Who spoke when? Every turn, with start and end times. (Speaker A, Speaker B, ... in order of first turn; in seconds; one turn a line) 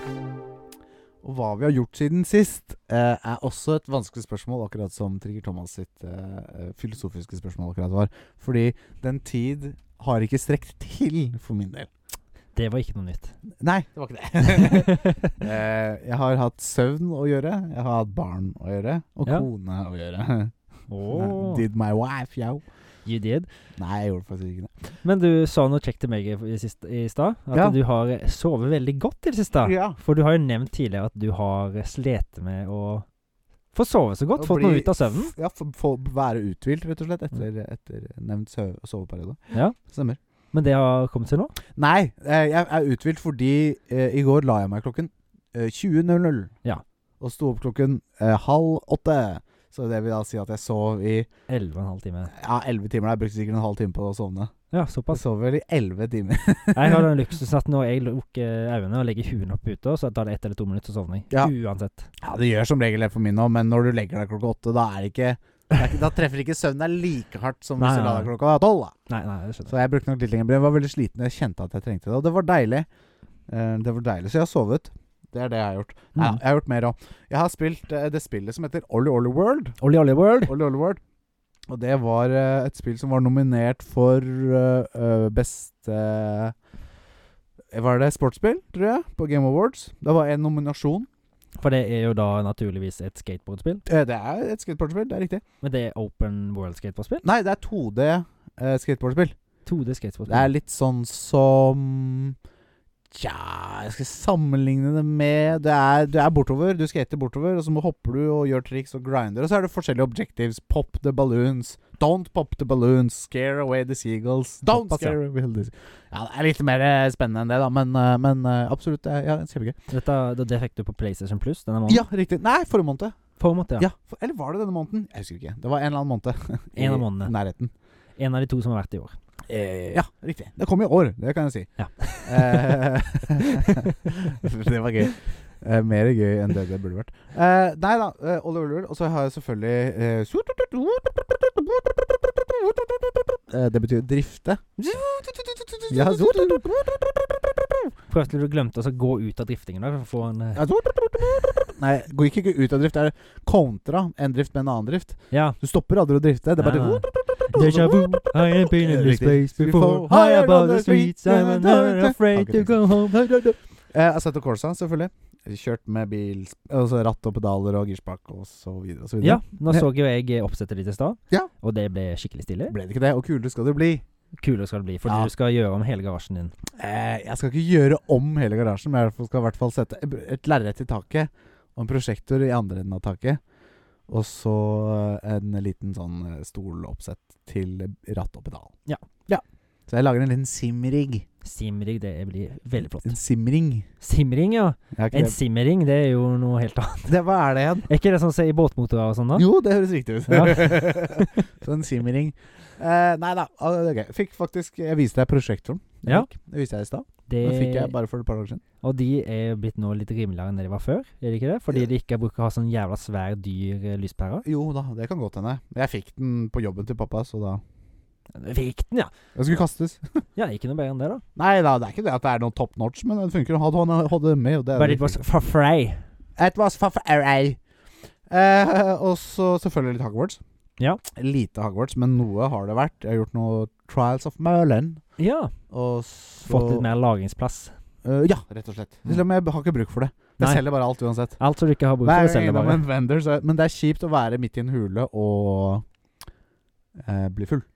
Speaker A: 1.2-11.9
Speaker B: 12.5-13.3
Speaker A: 13.6-20.5
Speaker B: 14.4-15.4
Speaker B: 20.9-21.6
Speaker A: 21.1-22.6
Speaker B: 23.0-23.5
Speaker A: 23.8-24.7
Speaker B: 25.0-33.0
Speaker A: 29.6-30.0
Speaker B: 33.7-35.3
Speaker A: 34.4-40.2
Speaker B: 39.5-39.8
Speaker B: 40.5-41.5
Speaker A: 41.7-46.5
Speaker A: 47.2-51.3
Speaker B: 51.5-52.3
Speaker A: 52.3-54.5
Speaker B: 54.7-55.2
Speaker A: 55.1-57.0
Speaker B: 56.7-62.1
Speaker A: 62.2-68.9
Speaker B: 67.8-68.3
Speaker B: 69.1-69.7
Speaker A: 69.7-72.9
Speaker A: 73.5-79.8
Speaker B: 76.1-76.4
Speaker B: 79.8-80.5
Speaker A: 80.5-81.0
Speaker A: 81.7-86.5
Speaker A: 87.7-91.1
Speaker B: 91.6-93.8
Speaker A: 93.9-95.4
Speaker B: 95.6-97.2
Speaker A: 97.2-99.3
Speaker B: 99.7-100.5
Speaker A: 100.3-102.4
Speaker A: 103.1-119.8
Speaker B: 114.6-115.2
Speaker B: 119.9-122.0
Speaker A: 121.9-123.2
Speaker B: 123.4-123.9
Speaker A: 123.8-127.7
Speaker B: 126.8-127.3
Speaker B: 128.2-129.1
Speaker A: 129.5-131.7
Speaker B: 131.8-132.7
Speaker A: 132.2-147.8
Speaker B: 133.6-134.0
Speaker B: 145.9-146.6
Speaker B: 148.1-150.6
Speaker A: 150.6-162.8
Speaker B: 155.3-155.6
Speaker B: 156.6-163.6
Speaker A: 163.9-169.8
Speaker B: 169.2-172.8
Speaker A: 172.7-174.0
Speaker B: 174.4-176.5
Speaker A: 175.1-175.3
Speaker A: 176.7-183.4
Speaker A: 184.1-188.7
Speaker A: 189.3-191.2
Speaker B: 191.4-193.2
Speaker A: 193.0-193.9
Speaker B: 194.0-197.1
Speaker A: 194.9-195.3
Speaker A: 197.1-197.9
Speaker B: 197.9-199.5
Speaker A: 199.3-208.6
Speaker B: 200.3-201.3
Speaker B: 207.3-207.9
Speaker B: 208.8-214.4
Speaker A: 214.4-217.6
Speaker B: 218.3-219.1
Speaker A: 219.3-220.2
Speaker B: 220.3-221.2
Speaker A: 221.3-225.2
Speaker B: 224.7-226.0
Speaker A: 226.4-227.6
Speaker A: 228.3-230.4
Speaker A: 231.1-235.0
Speaker B: 235.2-235.5
Speaker A: 235.7-236.8
Speaker B: 236.4-237.7
Speaker A: 238.0-241.4
Speaker B: 240.4-240.6
Speaker B: 241.4-242.8
Speaker A: 242.0-245.8
Speaker A: 247.0-247.7